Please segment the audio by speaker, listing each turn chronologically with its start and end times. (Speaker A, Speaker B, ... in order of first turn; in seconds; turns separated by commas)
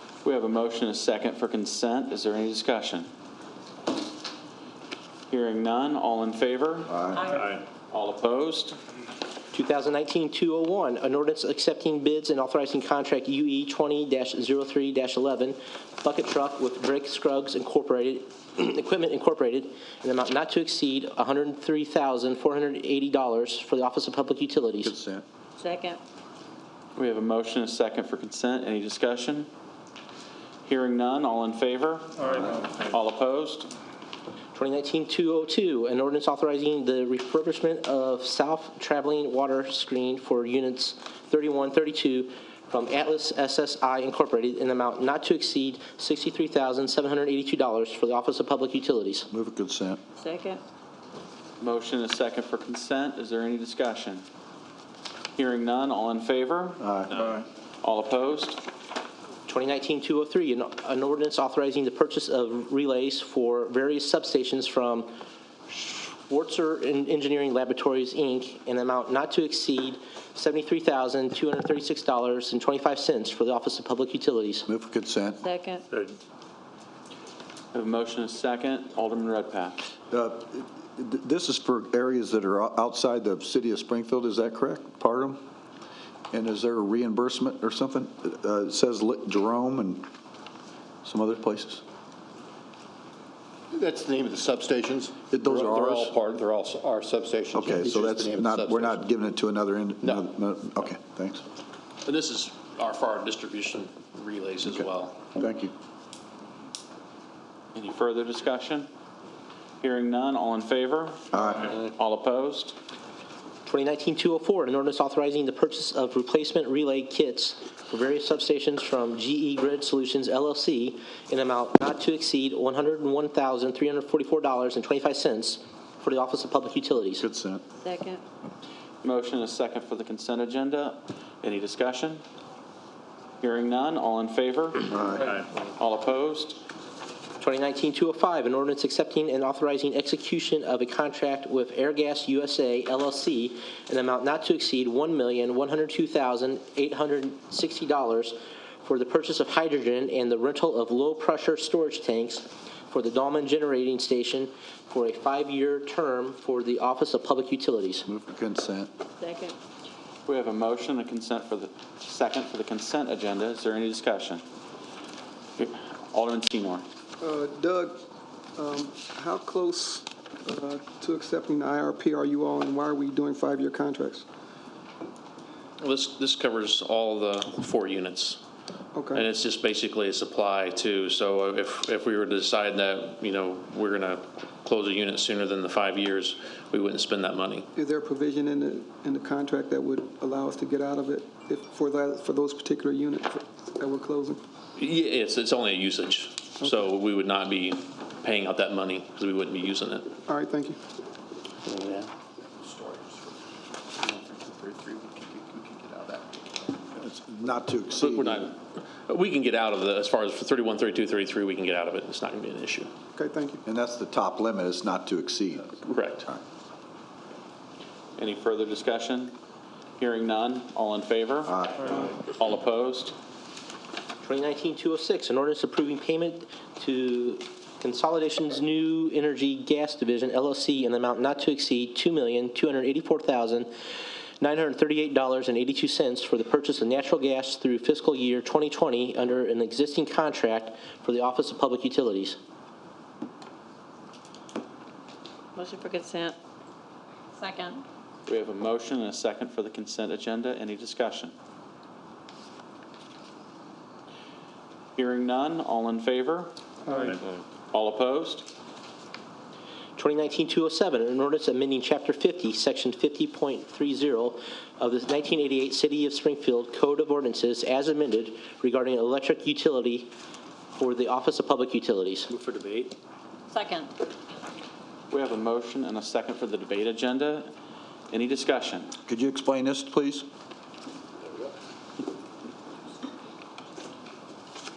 Speaker A: 0.2-3.1, Speaker A: 5.3-8.8, Speaker B: 6.9-7.3, Speaker C: 7.2-7.5, Speaker D: 9.5-24.9, Speaker B: 24.8-25.2, Speaker C: 25.6-26.0, Speaker A: 27.0-29.5, Speaker A: 30.7-33.7, Speaker D: 34.5-49.3, Speaker B: 49.3-50.0, Speaker C: 50.2-50.6, Speaker A: 51.6-54.2, Speaker A: 55.4-56.8, Speaker B: 56.8-57.4, Speaker A: 57.8-58.6, Speaker D: 59.5-65.1, Speaker D: 65.7-74.7, Speaker B: 74.7-75.4, Speaker C: 75.4-75.8, Speaker A: 77.7-79.8, Speaker B: 80.1-85.4, Speaker B: 86.3-90.1, Speaker B: 91.0-91.8, Speaker E: 93.7-99.0, Speaker B: 95.3-96.1, Speaker B: 97.5-101.4, Speaker F: 102.0-105.3, Speaker B: 105.3-105.7, Speaker A: 107.8-108.9, Speaker A: 109.8-112.8, Speaker B: 111.3-111.7, Speaker D: 113.7-127.2, Speaker B: 127.2-127.6, Speaker C: 127.8-128.2, Speaker A: 129.0-132.2, Speaker A: 133.4-136.6, Speaker B: 134.9-135.3, Speaker D: 137.4-158.1, Speaker B: 158.1-158.9, Speaker C: 159.2-159.6, Speaker A: 160.2-164.4, Speaker A: 165.6-166.8, Speaker G: 167.2-168.0, Speaker G: 168.6-174.2, Speaker F: 175.8-178.4, Speaker G: 178.9-179.3, Speaker F: 179.1-187.7, Speaker G: 187.8-194.4, Speaker F: 194.8-200.1, Speaker G: 200.2-200.8, Speaker E: 202.6-203.3, Speaker E: 204.0-206.5, Speaker B: 206.9-208.5, Speaker F: 208.0-212.9, Speaker G: 213.2-213.6, Speaker B: 213.7-215.8, Speaker F: 215.8-216.3, Speaker A: 218.2-219.3, Speaker A: 220.0-223.1, Speaker B: 221.5-222.0, Speaker D: 224.2-233.7, Speaker D: 234.4-242.4, Speaker C: 245.6-246.3, Speaker C: 247.4-247.8, Speaker A: 248.3-251.3, Speaker A: 254.9-256.5, Speaker G: 256.9-257.2, Speaker A: 257.7-258.5, Speaker D: 260.0-270.1, Speaker D: 270.7-272.3, Speaker C: 273.5-273.9, Speaker A: 275.1-277.5, Speaker A: 278.1-278.9, Speaker B: 279.1-280.2